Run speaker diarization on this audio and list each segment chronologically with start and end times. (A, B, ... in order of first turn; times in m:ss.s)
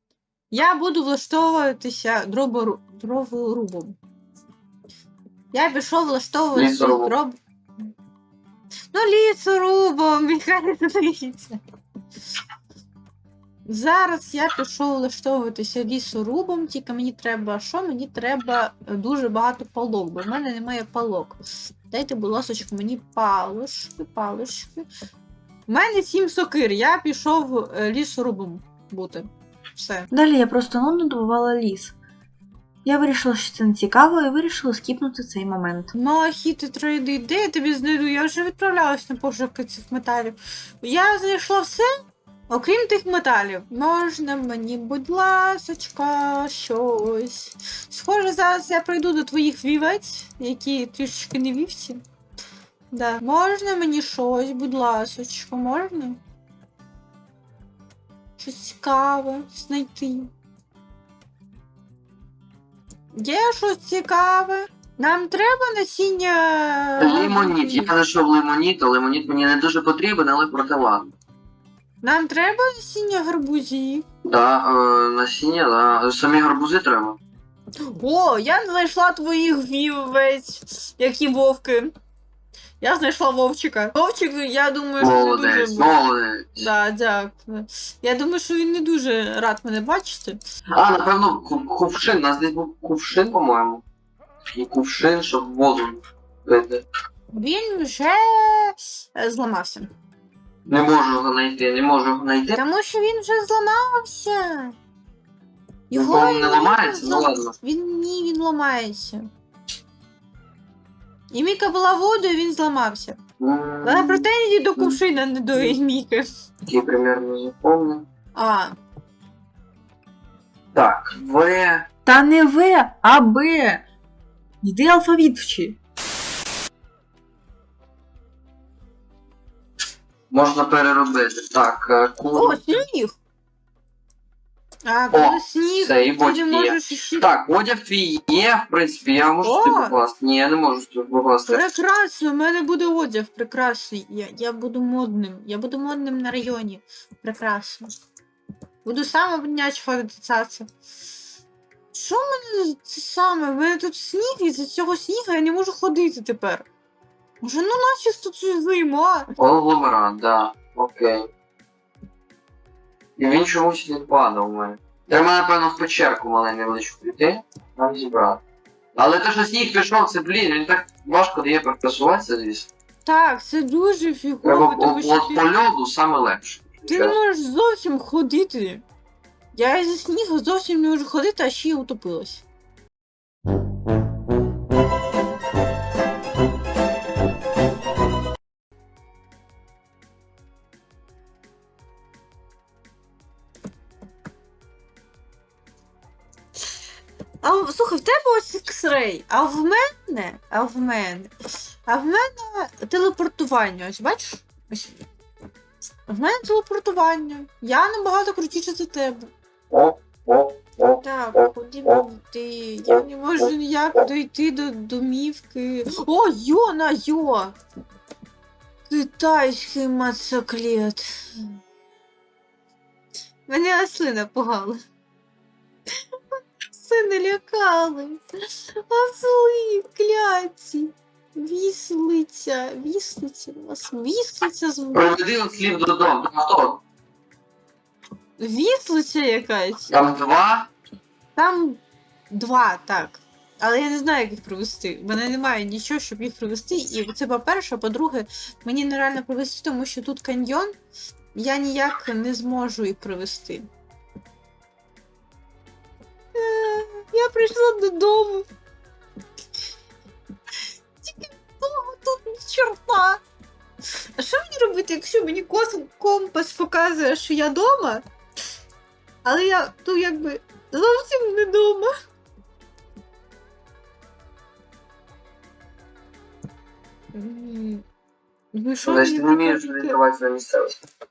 0:00.5-0:04.0 A
0:05.5-0:07.4 A
0:06.5-0:07.1 B
0:08.9-0:11.6 A
0:13.7-0:24.9 A
0:25.7-0:30.1 A
0:30.1-0:31.9 C
0:32.8-0:35.9 C
0:35.9-0:41.8 A
0:42.5-0:52.0 A
0:52.9-0:56.2 A
0:58.4-1:00.3 A
1:03.1-1:07.9 A
1:07.0-1:11.1 B
1:12.0-1:14.0 A
1:14.2-1:17.2 B
1:17.8-1:21.9 A
1:22.8-1:26.0 A
1:25.0-1:26.7 B
1:26.6-1:30.4 A
1:30.7-1:33.8 B
1:34.5-1:36.8 B
1:37.3-1:39.9 A
1:40.6-1:42.6 B
1:42.5-1:44.7 A
1:45.9-1:49.2 A
1:45.9-1:47.5 B
1:51.3-1:53.2 A
1:53.4-1:55.0 B
1:53.8-1:56.2 A
1:56.6-1:58.0 B
1:58.3-1:58.7 A
2:00.7-2:01.9 B
2:02.1-2:03.8 C
2:04.6-2:05.7 C
2:10.3-2:12.6 B
2:12.3-2:13.1 A
2:14.8-2:17.3 A
2:15.1-2:21.7 B
2:19.4-2:20.0 A
2:21.5-2:28.0 A
2:28.8-2:30.7 A
2:31.9-2:36.7 A
2:37.4-2:39.3 A
2:39.4-2:41.3 B
2:43.2-2:48.4 B
2:48.9-2:52.7 B
2:53.0-2:55.4 A
2:54.4-2:57.1 B
2:56.9-2:58.8 A
2:59.5-3:02.4 A
3:17.4-3:21.3 A
3:21.8-3:24.9 A
3:26.0-3:29.3 A
3:29.7-3:32.0 B
3:31.0-3:37.6 A
3:32.9-3:33.5 B
3:38.9-3:41.5 A
3:43.5-3:44.8 A
3:46.7-3:48.2 A
3:48.8-3:55.1 A
3:54.9-3:56.8 B
3:58.4-4:00.0 A
3:59.9-4:00.7 B
4:01.4-4:10.8 A
4:11.3-4:13.7 A
4:16.3-4:18.4 A
4:21.0-4:23.2 A
4:24.2-4:28.0 A
4:29.2-4:31.9 A
4:37.1-4:37.8 A
4:38.5-4:40.0 A
4:38.8-4:40.8 B